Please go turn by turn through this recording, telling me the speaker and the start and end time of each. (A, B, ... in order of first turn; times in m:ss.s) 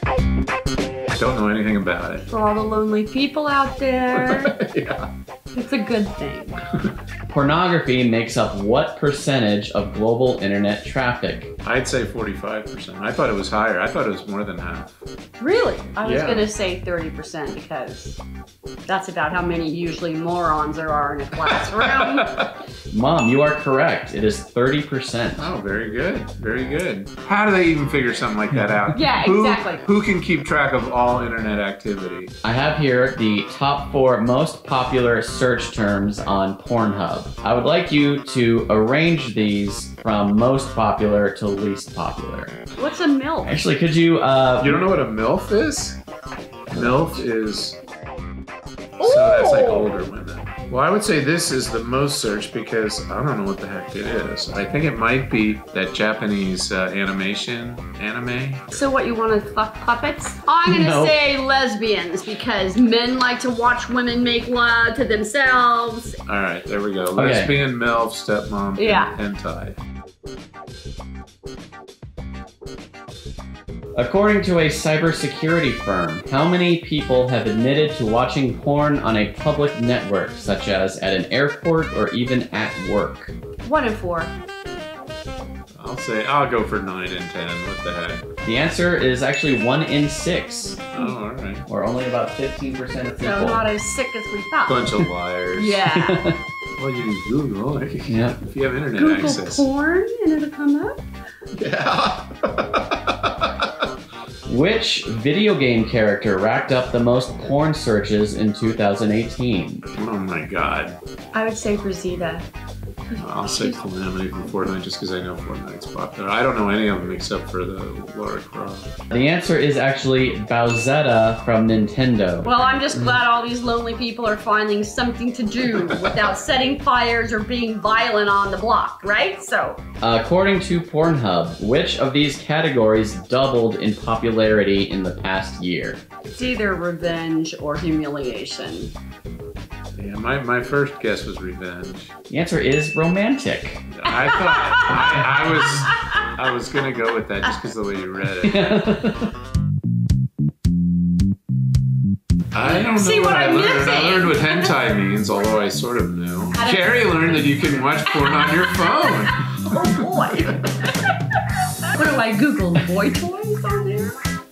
0:01.2-0:02.2 A
0:02.3-0:04.5 B
0:04.1-0:05.1 A
0:05.5-0:06.6 B
0:07.3-0:11.5 C
0:11.6-0:15.0 A
0:15.4-0:18.2 B
0:16.0-0:16.5 A
0:18.9-0:22.4 B
0:21.4-0:22.5 A
0:22.9-0:25.5 C
0:25.4-0:32.3 A
0:28.9-0:29.8 B
0:32.4-0:42.6 C
0:42.8-0:43.7 B
0:43.4-0:44.8 C
0:44.6-0:46.0 A
0:46.7-0:47.8 A
0:46.7-0:47.2 C
0:49.0-0:50.1 B
0:49.0-0:58.7 A
0:58.7-1:06.2 B
1:00.7-1:01.2 C
1:06.3-1:09.8 A
1:07.2-1:07.5 C
1:08.8-1:09.2 B
1:14.0-1:23.3 C
1:23.6-1:24.3 B
1:25.8-1:28.3 A
1:28.4-1:30.9 C
1:30.9-1:31.7 A
1:31.7-1:33.6 C
1:33.2-1:35.0 B
1:34.7-1:35.9 A
1:35.6-1:36.3 B
1:36.0-1:36.4 C
1:36.8-1:39.7 A
1:38.1-1:38.4 C
1:39.0-1:41.0 B
1:41.5-1:43.5 A
1:44.5-1:49.8 C
1:49.9-1:51.0 A
1:51.3-1:52.5 B
1:53.1-1:53.8 B
1:53.2-1:59.1 A
1:59.1-2:03.2 C
2:02.4-2:09.8 B
2:05.9-2:06.2 A
2:10.0-2:16.0 C
2:16.2-2:18.9 B
2:20.0-2:22.1 A
2:22.3-2:23.9 C
2:23.9-2:28.7 A
2:24.1-2:26.3 B
2:28.4-2:29.3 C
2:32.5-2:40.0 A
2:32.6-2:34.7 B
2:36.6-2:37.4 B
2:38.2-2:41.2 B
2:41.9-2:44.2 B